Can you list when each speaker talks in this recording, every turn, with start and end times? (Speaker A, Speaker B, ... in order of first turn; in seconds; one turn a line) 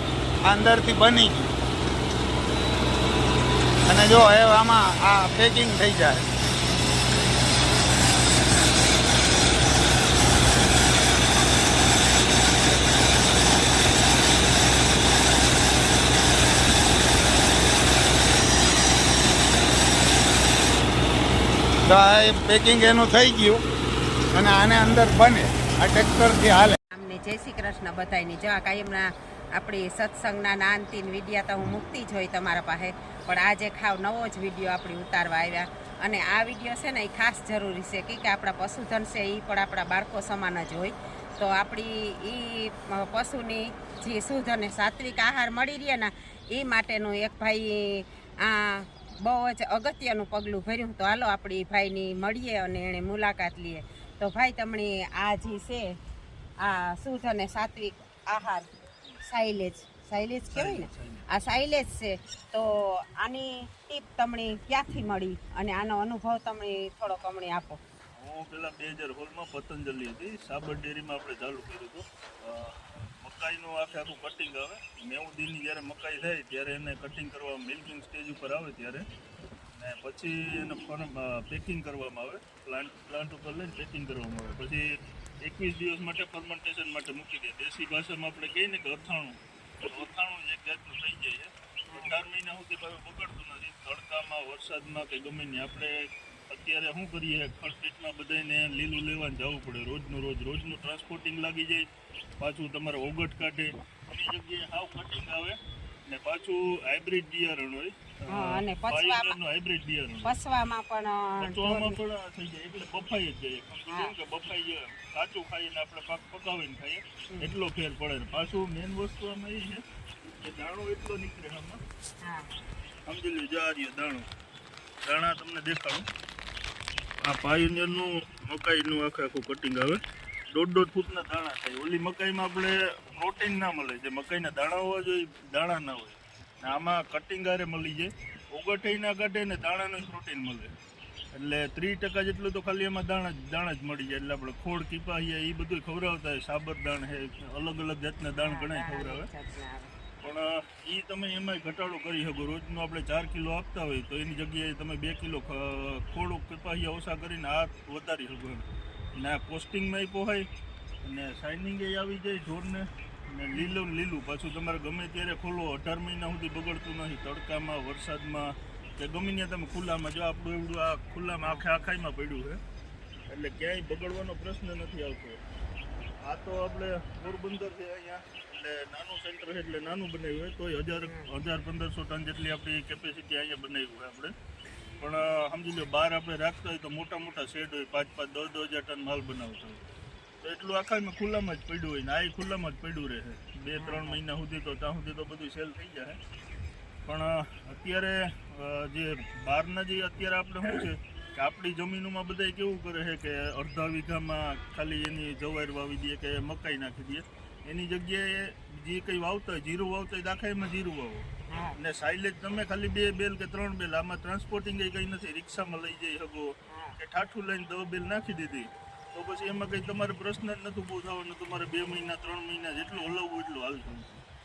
Speaker A: 0.4-1.5
Speaker A: 3.8-6.3
Speaker A: 21.8-23.6
Speaker A: 24.3-26.8
Speaker B: 26.9-56.0
Speaker B: 56.6-58.7
Speaker B: 59.2-67.8
Speaker C: 60.5-61.2
Speaker C: 68.2-79.0
Speaker C: 79.8-84.8
Speaker C: 85.4-101.8
Speaker B: 91.9-92.2
Speaker C: 102.4-105.6
Speaker C: 106.1-110.3
Speaker B: 108.3-109.4
Speaker B: 110.2-112.0
Speaker C: 111.4-119.8
Speaker C: 120.4-121.8
Speaker B: 122.2-122.6
Speaker C: 123.0-124.3
Speaker C: 125.0-126.1
Speaker C: 127.2-130.0
Speaker C: 130.5-140.7
Speaker C: 141.3-149.3
Speaker B: 148.3-149.9
Speaker C: 150.2-160.4
Speaker C: 161.0-172.6
Speaker C: 173.3-175.4
Speaker C: 176.2-184.3
Speaker B: 181.0-181.3
Speaker C: 185.0-189.8
Speaker C: 190.4-196.2
Speaker B: 193.8-194.2
Speaker C: 197.0-224.2
Speaker B: 211.5-211.8
Speaker B: 216.7-216.9